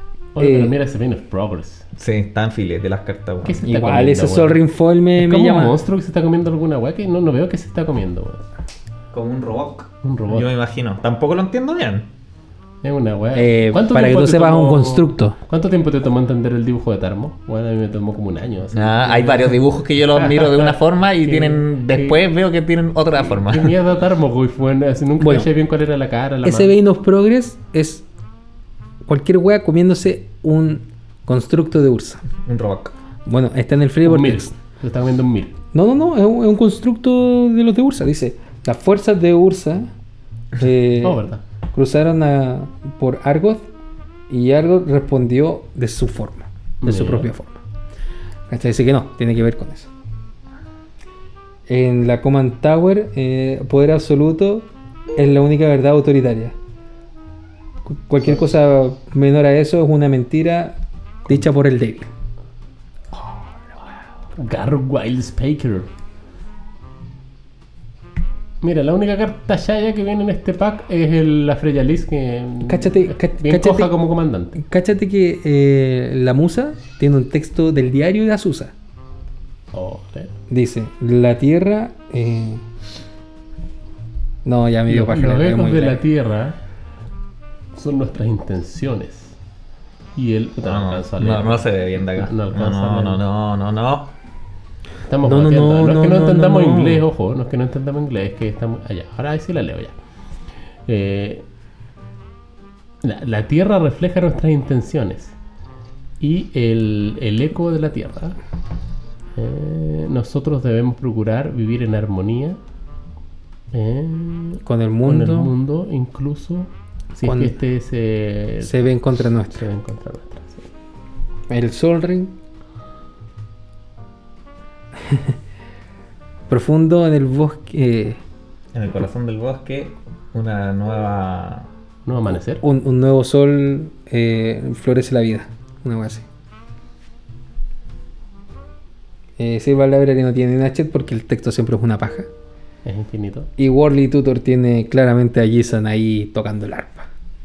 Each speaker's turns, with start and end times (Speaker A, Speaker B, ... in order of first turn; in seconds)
Speaker A: 0.3-1.9, 3.4-4.6, 5.2-8.4, 10.0-10.5, 12.8-19.6, 20.1-22.2, 23.2-26.7, 34.0-35.6, 41.0-41.4, 46.8-47.3, 64.3-65.9, 68.6-74.6, 79.7-80.3, 84.9-86.5, 87.7-89.3, 90.2-93.2, 95.1-99.9, 100.9-101.4, 103.0-105.3, 106.2-108.4, 109.3-112.6, 113.7-118.7, 119.5-120.7, 132.1-132.6, 142.8-143.5
Speaker B: 0.4-0.7, 3.6-5.8, 13.3-15.4, 25.2-25.5, 26.4-28.0, 29.1-32.2, 33.2-34.5, 35.7-39.9, 40.6-41.2, 41.7-43.6, 44.3-47.6, 48.5-49.9, 51.7-56.5, 57.9-62.1, 72.6-73.9, 74.6-78.7, 80.5-82.6, 84.4-86.0, 95.2-97.0, 114.6-115.5, 117.2-117.5, 118.6-119.7, 121.5-122.3, 125.0-125.3, 126.5-128.2, 132.6-136.2, 139.4-142.3, 143.6-147.1
Speaker C: 1.9-3.6, 9.1-12.1, 18.7-23.7, 32.4-32.9, 90.6-94.1, 128.7-131.7